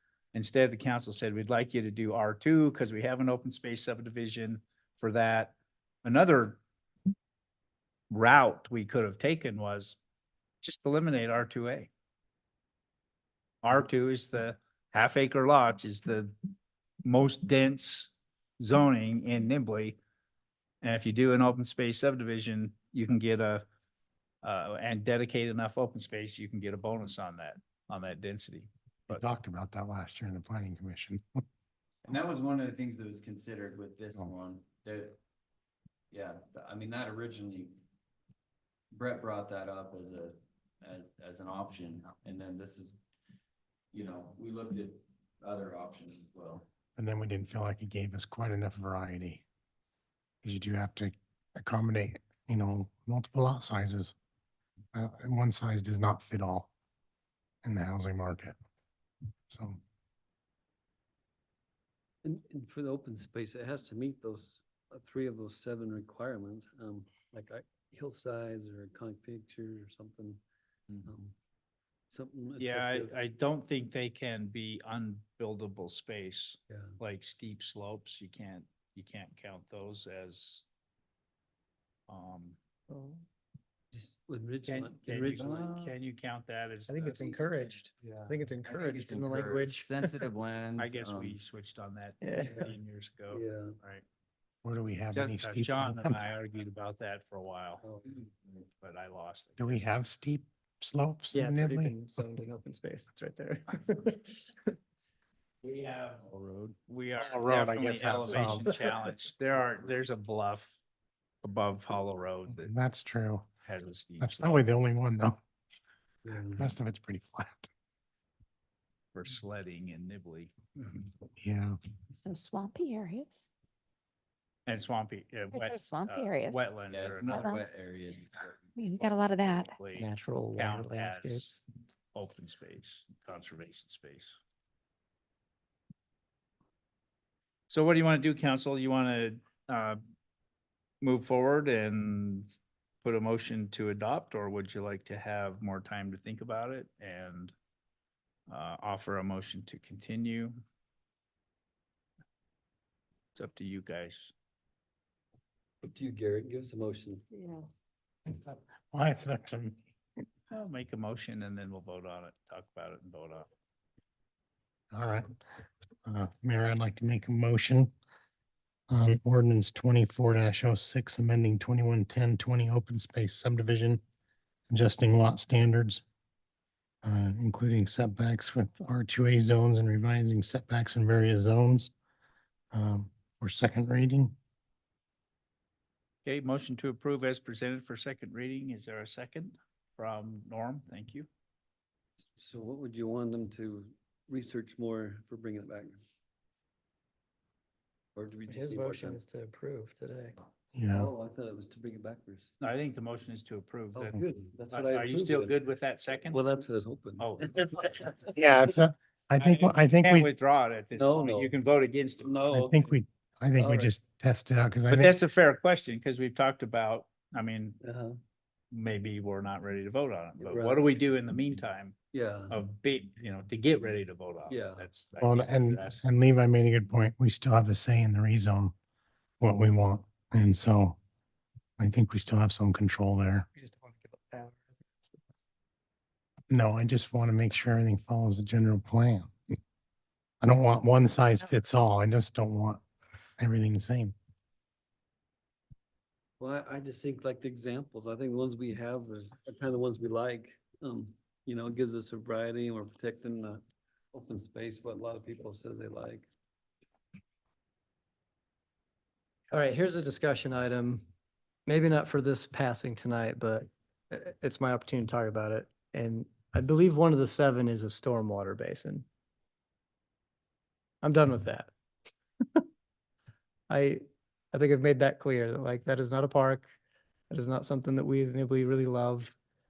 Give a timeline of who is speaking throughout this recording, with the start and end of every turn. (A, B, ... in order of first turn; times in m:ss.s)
0:00.3-0:06.6 A
0:08.1-0:10.0 A
0:10.6-0:11.9 A
0:13.6-0:16.3 A
0:17.0-0:20.0 A
0:20.8-0:23.6 A
0:24.4-0:29.2 A
0:29.1-0:31.2 B
0:32.0-0:35.2 C
0:36.1-0:37.8 C
0:38.9-0:43.0 C
0:43.9-0:46.7 C
0:47.0-0:49.4 B
0:50.4-0:54.1 B
0:54.9-0:56.7 B
0:57.6-0:58.6 B
0:59.5-0:59.8 B
1:02.2-1:10.4 D
1:11.0-1:11.3 D
1:12.1-1:13.1 D
1:12.6-1:20.7 A
1:22.1-1:22.6 A
1:22.9-1:23.2 E
1:23.9-1:25.9 D
1:24.7-1:27.8 A
1:26.9-1:30.2 E
1:28.0-1:31.4 C
1:30.8-1:34.0 A
1:32.2-1:32.7 E
1:33.3-1:33.7 D
1:34.6-1:36.2 B
1:35.1-1:37.8 A
1:37.8-1:38.1 D
1:38.8-1:39.8 A
1:39.6-1:41.9 B
1:41.3-1:44.6 E
1:45.6-1:50.8 A
1:47.2-1:48.7 B
1:51.4-1:52.7 A
1:52.5-1:53.5 B
1:53.6-1:54.6 A
1:54.2-1:55.4 B
1:56.2-1:56.7 D
1:56.5-1:57.7 B
1:59.1-2:01.0 A
2:01.4-2:01.8 B
2:02.2-2:03.5 F
2:04.6-2:07.6 A
2:05.5-2:06.7 F
2:06.9-2:09.1 C
2:08.8-2:09.8 F
2:09.0-2:11.5 A
2:09.9-2:11.6 E
2:12.1-2:14.4 A
2:17.7-2:20.0 A
2:21.0-2:22.5 A
2:23.0-2:27.5 A
2:28.5-2:30.6 A
2:33.3-2:34.3 A
2:35.8-2:37.2 D
2:37.3-2:37.6 F
2:38.3-2:39.8 B
2:40.5-2:43.5 A
2:44.9-2:45.3 B
2:46.0-2:47.9 B
2:48.9-2:54.0 B
2:54.7-2:56.0 B
2:57.0-3:01.9 B
3:02.7-3:04.3 B
3:06.2-3:11.3 A
3:12.3-3:16.0 D
3:18.1-3:19.2 D
3:18.5-3:20.4 E
3:20.7-3:21.1 B
3:20.9-3:22.6 D
3:22.6-3:24.2 A
3:23.9-3:25.6 D
3:24.7-3:26.4 A
3:26.2-3:28.2 D
3:27.2-3:27.8 A
3:28.3-3:30.3 B
3:29.4-3:32.3 A
3:30.9-3:31.6 D
3:32.2-3:32.9 D
3:32.5-3:35.1 B
3:33.6-3:33.9 D
3:34.9-3:37.8 A
3:37.8-3:38.2 D
3:38.7-3:41.9 A
3:40.4-3:40.9 D
3:42.1-3:42.6 D
3:42.5-3:46.0 A
3:44.5-3:44.9 D
3:45.2-3:48.7 B
3:49.4-3:51.0 B
3:51.8-3:53.5 B
3:53.5-3:55.2 E
3:56.5-3:59.3 B
4:00.4-4:02.8 B
4:03.4-4:04.1 B
4:06.4-4:16.3 D
4:19.5-4:21.0 E
4:21.6-4:29.0 E
4:31.0-4:31.7 E
4:33.7-4:36.7 E
4:37.3-4:39.3 E